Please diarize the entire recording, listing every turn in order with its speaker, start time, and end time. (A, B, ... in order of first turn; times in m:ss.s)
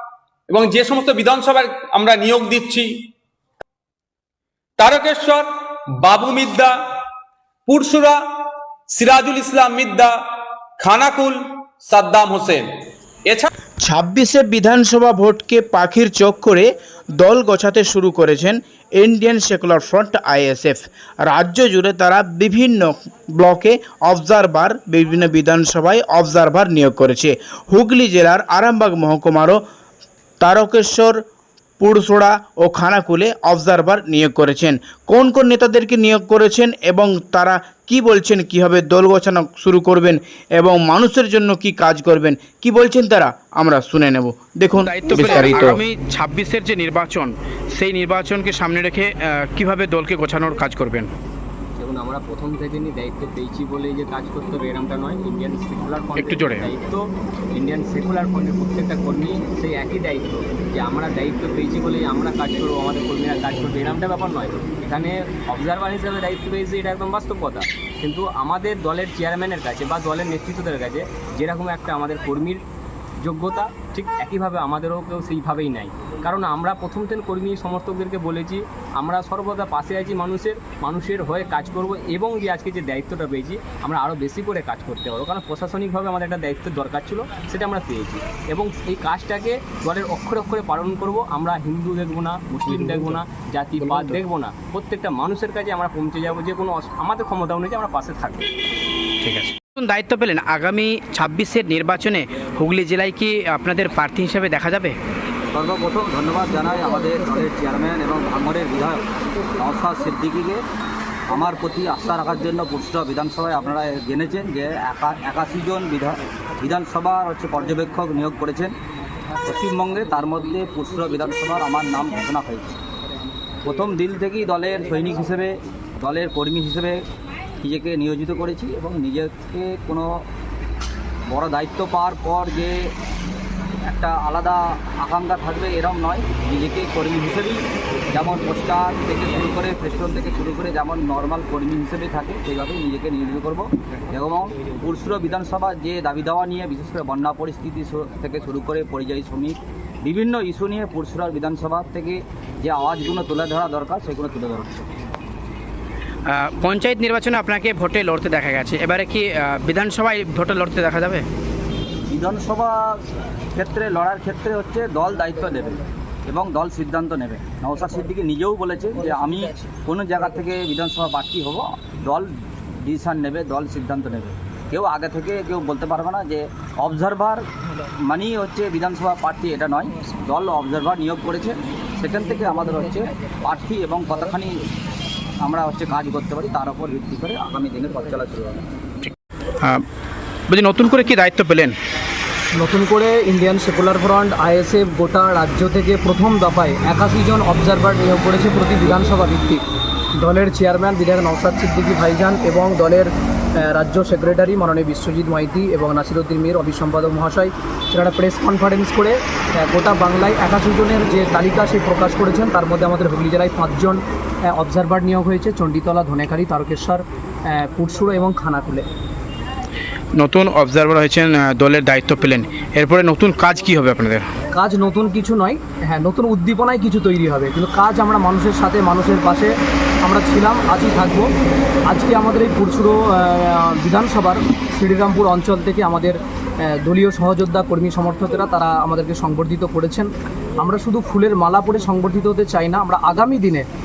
0:00.5-0:03.1 A
0:04.8-0:05.5 A
0:06.0-0:06.8 A
0:07.7-0:08.2 A
0:08.9-0:10.2 A
0:10.8-0:12.7 A
0:13.8-0:16.7 B
0:17.2-0:29.6 B
0:30.4-0:31.2 B
0:31.8-0:45.8 B
0:44.8-0:51.1 C
0:51.8-1:12.6 D
0:56.2-0:56.7 C
1:13.2-1:38.5 D
1:39.2-1:45.0 C
1:45.5-1:49.0 E
1:49.6-1:50.6 E
1:51.3-1:58.8 E
1:59.4-2:02.8 E
2:03.6-2:07.0 E
2:07.6-2:10.2 E
2:11.3-2:12.9 E
2:13.9-2:34.8 E
2:36.3-2:41.3 C
2:42.1-2:43.0 E
2:43.5-2:57.4 E
2:58.0-3:04.6 E
3:05.4-3:08.6 E
3:09.0-3:09.8 C
3:10.5-3:11.8 C
3:12.6-3:19.6 F
3:20.2-3:38.9 F
3:40.2-3:44.2 C
3:44.5-3:51.3 F
3:51.9-4:03.7 F